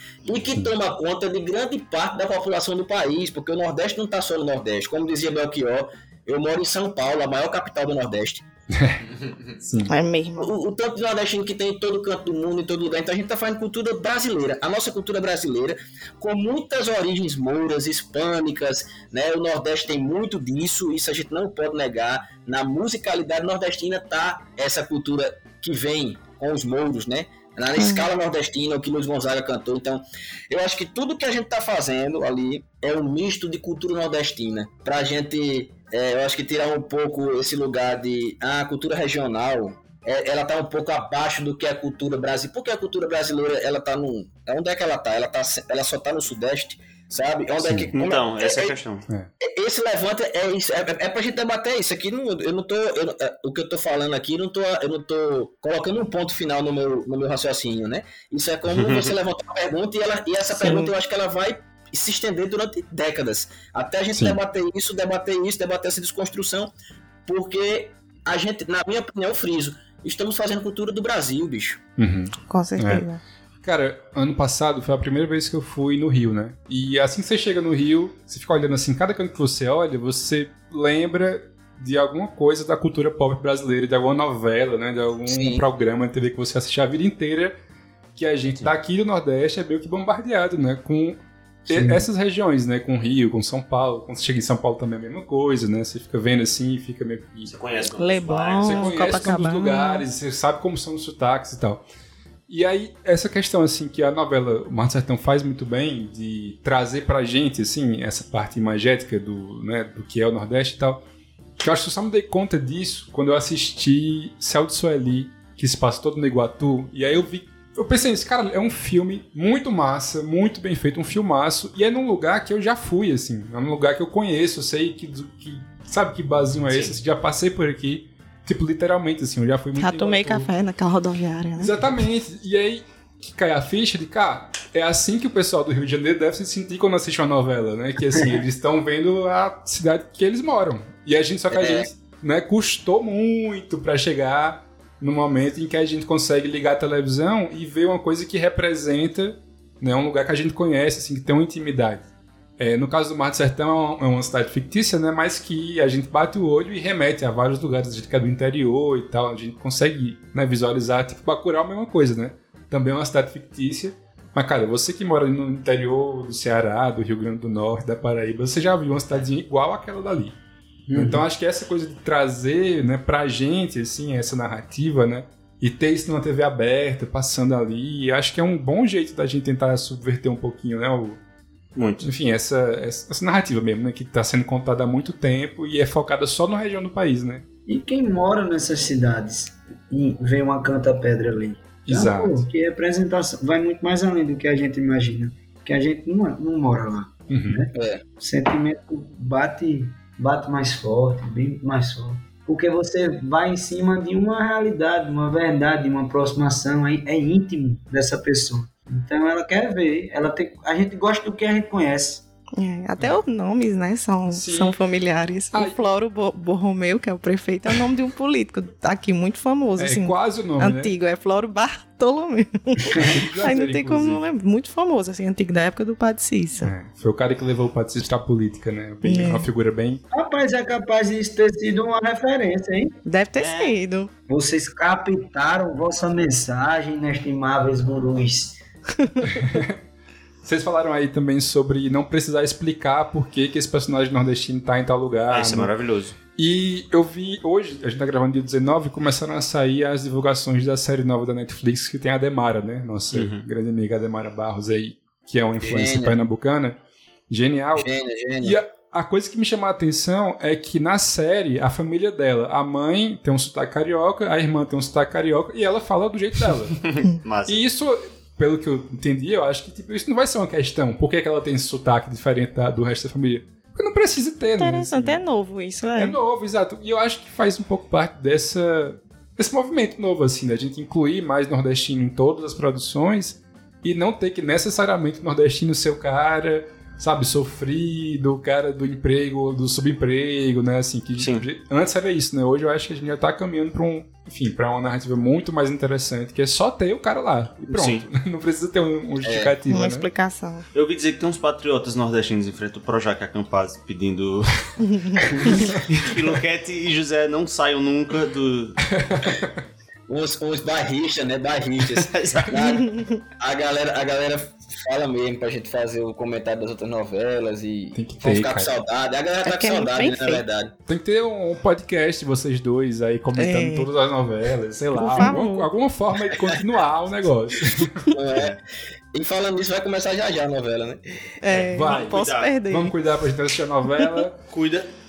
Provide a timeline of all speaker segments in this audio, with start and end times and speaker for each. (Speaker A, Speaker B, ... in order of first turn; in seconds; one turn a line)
Speaker A: 0.2-8.4
Speaker B: 8.7-9.0
Speaker B: 9.6-9.9
Speaker C: 9.9-10.5
Speaker A: 10.4-48.8
Speaker C: 27.8-28.1
Speaker B: 47.6-47.9
Speaker D: 47.9-49.0
Speaker A: 49.4-66.7
Speaker D: 58.7-59.1
Speaker C: 60.5-60.9
Speaker B: 64.1-64.4
Speaker A: 67.3-71.8
Speaker B: 72.0-73.1
Speaker C: 72.5-73.2
Speaker B: 73.6-87.5
Speaker A: 85.3-85.6
Speaker B: 88.1-97.5
Speaker E: 91.7-92.0
Speaker D: 97.5-99.2
Speaker C: 98.0-100.1
Speaker B: 98.6-101.8
Speaker B: 102.5-111.0
Speaker B: 111.6-130.5
Speaker C: 129.8-132.1
Speaker B: 131.6-152.0
Speaker A: 141.5-141.9
Speaker B: 152.6-170.4
Speaker B: 170.9-181.2
Speaker D: 181.8-182.1
Speaker B: 182.0-187.4
Speaker E: 187.7-212.2
Speaker B: 191.8-192.4
Speaker B: 197.3-197.6
Speaker A: 197.7-198.0
Speaker C: 212.6-226.7
Speaker B: 214.3-214.8
Speaker B: 219.8-220.9
Speaker B: 223.0-224.2
Speaker B: 226.6-230.0
Speaker C: 229.0-229.5
Speaker E: 230.1-232.9
Speaker C: 233.1-234.1
Speaker D: 233.3-233.8
Speaker E: 234.3-238.6
Speaker C: 239.1-239.4
Speaker B: 239.3-239.8
Speaker B: 240.4-245.7
Speaker D: 245.3-246.2
Speaker B: 246.4-256.8
Speaker D: 253.1-253.4
Speaker A: 255.6-256.2
Speaker B: 257.3-257.9
Speaker A: 257.8-258.6
Speaker B: 258.4-266.8
Speaker D: 266.8-267.6
Speaker B: 267.4-275.2
Speaker C: 274.6-276.2
Speaker B: 276.0-300.1
Speaker D: 291.2-291.4
Speaker D: 297.6-298.1
Speaker A: 299.2-299.6
Speaker C: 299.7-300.6
Speaker D: 300.7-308.8
Speaker C: 304.8-305.7
Speaker B: 308.9-309.4
Speaker A: 310.1-312.9
Speaker D: 311.9-312.5
Speaker C: 312.6-313.2
Speaker A: 313.4-320.7
Speaker B: 317.9-318.7
Speaker C: 319.4-320.4
Speaker B: 320.9-328.0
Speaker C: 323.4-323.9
Speaker C: 324.9-325.7
Speaker A: 328.1-328.6
Speaker D: 328.3-328.6
Speaker A: 329.1-331.0
Speaker C: 331.4-332.9
Speaker D: 331.5-332.6
Speaker B: 331.7-334.4
Speaker C: 333.9-334.2
Speaker D: 334.5-334.9